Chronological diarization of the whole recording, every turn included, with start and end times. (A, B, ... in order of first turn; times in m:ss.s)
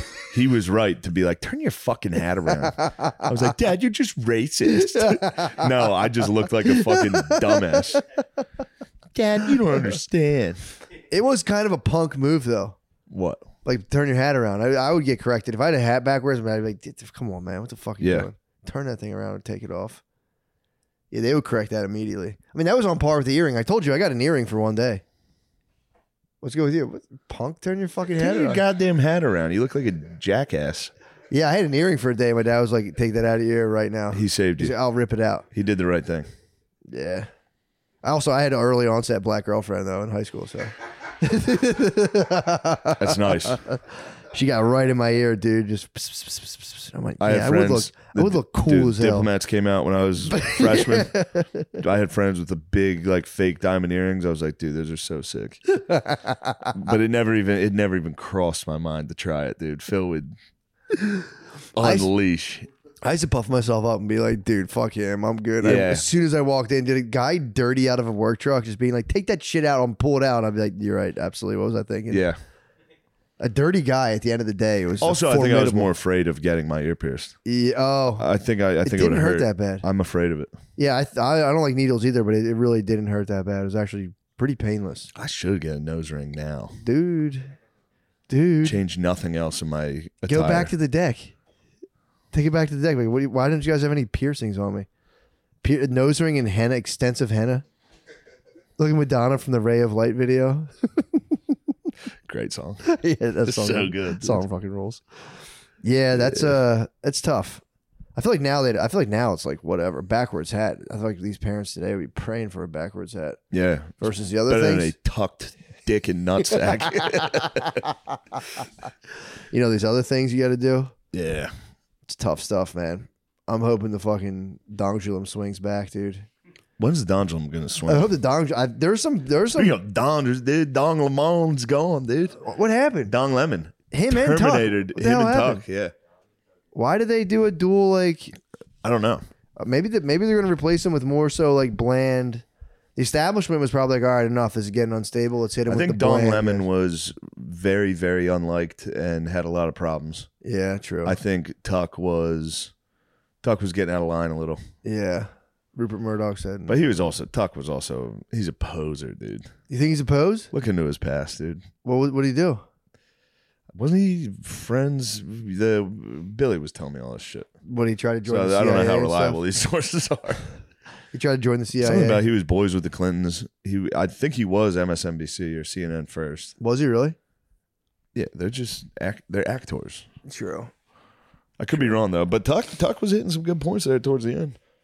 0:00.2-0:08.0 A
0:02.8-0:03.2 B
0:04.6-0:05.8 B
0:06.6-0:07.8 B
0:09.1-0:10.6 A
0:11.1-0:12.8 B
0:13.1-0:13.4 A
0:13.6-0:20.0 B
0:18.0-0:18.3 A
0:21.1-0:25.0 B
0:26.4-0:28.6 B
0:28.2-0:30.9 A
0:31.3-0:35.4 B
0:34.1-0:34.8 A
0:35.5-0:36.3 A
0:36.9-0:37.3 B
0:38.0-0:49.3 B
0:43.0-0:43.6 A
0:47.2-0:51.2 A
0:50.3-0:51.8 B
0:51.8-0:55.6 A
0:55.7-0:56.7 B
0:56.7-1:00.3 A
1:01.7-1:02.7 A
1:01.8-1:02.1 B
1:03.0-1:12.2 B
1:05.6-1:06.0 A
1:12.1-1:12.4 A
1:13.4-1:15.9 B
1:15.0-1:17.3 A
1:17.4-1:18.3 B
1:18.2-1:20.6 A
1:18.8-1:19.8 B
1:20.8-1:25.1 B
1:25.1-1:26.8 A
1:26.8-1:27.5 B
1:28.3-1:28.8 B
1:28.6-1:30.7 A
1:30.3-1:31.3 B
1:32.3-1:34.9 B
1:35.6-1:37.6 B
1:38.8-1:41.2 B
1:42.3-1:42.8 A
1:42.8-1:45.0 B
1:43.4-1:44.4 A
1:45.8-1:47.6 B
1:46.2-1:46.5 A
1:48.2-1:53.4 B
1:53.5-1:57.8 A
1:54.0-1:54.9 B
1:59.5-2:00.9 B
2:01.1-2:01.5 A
2:02.1-2:06.3 B
2:06.8-2:08.1 A
2:07.8-2:09.8 B
2:09.5-2:12.4 A
2:12.4-2:13.1 B
2:13.0-2:15.9 A
2:13.9-2:15.6 B
2:16.7-2:18.4 B
2:18.8-2:19.2 A
2:19.6-2:22.4 B
2:23.0-2:26.6 B
2:25.7-2:30.3 A
2:30.4-2:31.2 B
2:31.0-2:32.7 A
2:33.4-2:34.6 A
2:34.8-2:36.9 B
2:36.7-2:39.5 A
2:39.7-2:40.5 B
2:40.5-2:41.6 A
2:41.8-2:42.6 B
2:43.7-2:47.5 A
2:47.6-2:49.4 B
2:48.2-2:50.4 A
2:51.1-2:52.2 B
2:51.8-2:56.5 A
2:56.6-2:57.2 B
2:58.1-3:00.0 A
3:00.2-3:00.7 B
3:01.6-3:04.6 A